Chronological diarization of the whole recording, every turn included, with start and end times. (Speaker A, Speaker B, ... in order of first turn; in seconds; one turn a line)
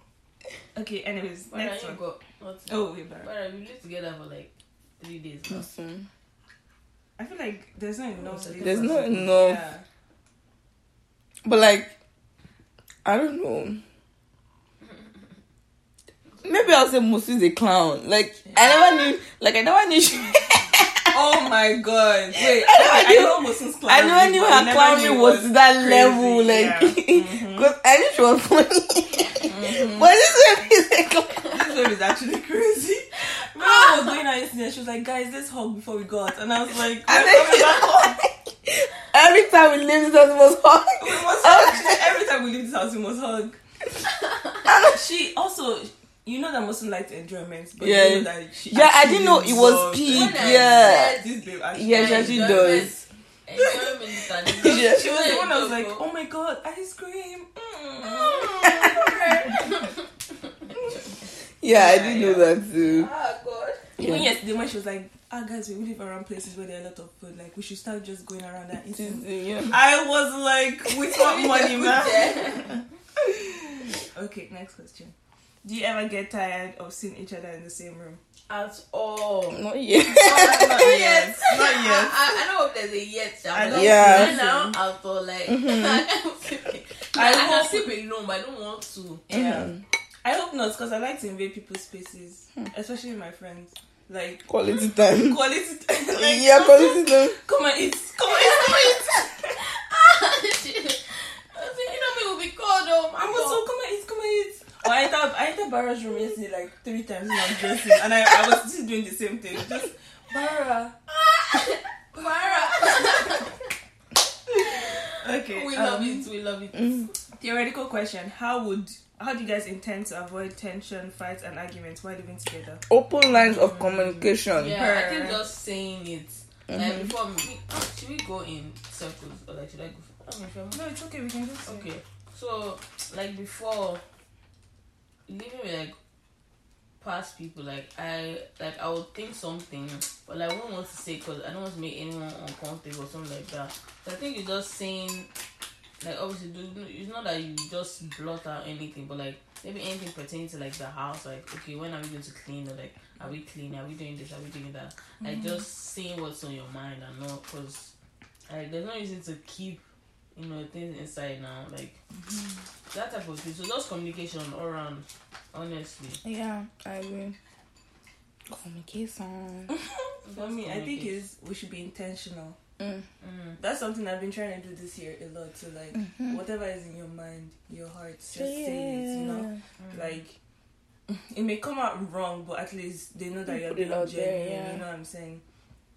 Speaker A: 0.7-2.0
Speaker B: 1.5-5.8
Speaker A: 2.7-3.3
Speaker C: 5.5-6.0
Speaker A: 7.2-9.8
Speaker B: 8.2-9.3
Speaker C: 8.6-9.6
Speaker C: 11.4-11.9
Speaker C: 13.0-13.8
Speaker B: 14.8-15.1
Speaker B: 16.3-16.8
Speaker C: 16.4-21.2
Speaker A: 21.1-27.7
Speaker C: 22.4-31.5
Speaker A: 29.5-30.1
Speaker A: 31.5-38.2
Speaker B: 33.2-34.2
Speaker C: 37.0-42.1
Speaker A: 41.0-43.6
Speaker B: 44.0-44.7
Speaker C: 44.6-45.0
Speaker A: 44.9-52.9
Speaker C: 47.8-51.2
Speaker B: 50.0-56.0
Speaker C: 51.7-52.9
Speaker C: 54.5-55.3
Speaker A: 54.6-59.8
Speaker B: 58.0-61.1
Speaker C: 58.7-59.3
Speaker C: 61.6-63.1
Speaker B: 61.7-63.9
Speaker A: 64.0-78.2
Speaker C: 64.0-64.3
Speaker C: 68.9-69.8
Speaker B: 70.9-72.8
Speaker B: 78.5-79.6
Speaker C: 79.5-81.0
Speaker A: 80.2-82.3
Speaker B: 80.2-89.2
Speaker A: 83.5-84.6
Speaker C: 83.7-84.7
Speaker C: 85.5-86.0
Speaker A: 87.1-87.9
Speaker A: 89.3-99.5
Speaker C: 89.3-89.8
Speaker C: 94.5-95.4
Speaker C: 96.1-97.4
Speaker B: 98.3-99.0
Speaker B: 99.5-103.6
Speaker A: 103.2-111.0
Speaker B: 111.2-113.7
Speaker A: 112.2-113.3
Speaker B: 114.6-117.1
Speaker A: 115.1-116.3
Speaker C: 116.8-117.0
Speaker A: 117.4-122.8
Speaker C: 122.9-124.8
Speaker B: 123.5-130.8
Speaker A: 124.7-125.5
Speaker C: 126.7-127.1
Speaker A: 130.7-131.9
Speaker B: 131.6-134.0
Speaker B: 135.3-135.9
Speaker B: 137.0-145.3
Speaker B: 146.0-157.9
Speaker A: 155.2-155.6
Speaker B: 158.5-159.8
Speaker B: 160.3-162.0
Speaker B: 162.9-166.2
Speaker C: 166.2-167.4
Speaker C: 168.5-169.7
Speaker A: 169.7-172.6
Speaker B: 170.2-171.2
Speaker C: 172.8-173.0
Speaker B: 173.2-173.6
Speaker A: 173.6-180.3
Speaker C: 175.9-176.4
Speaker C: 178.3-179.6
Speaker B: 179.8-180.2
Speaker A: 181.1-185.4
Speaker C: 183.5-184.8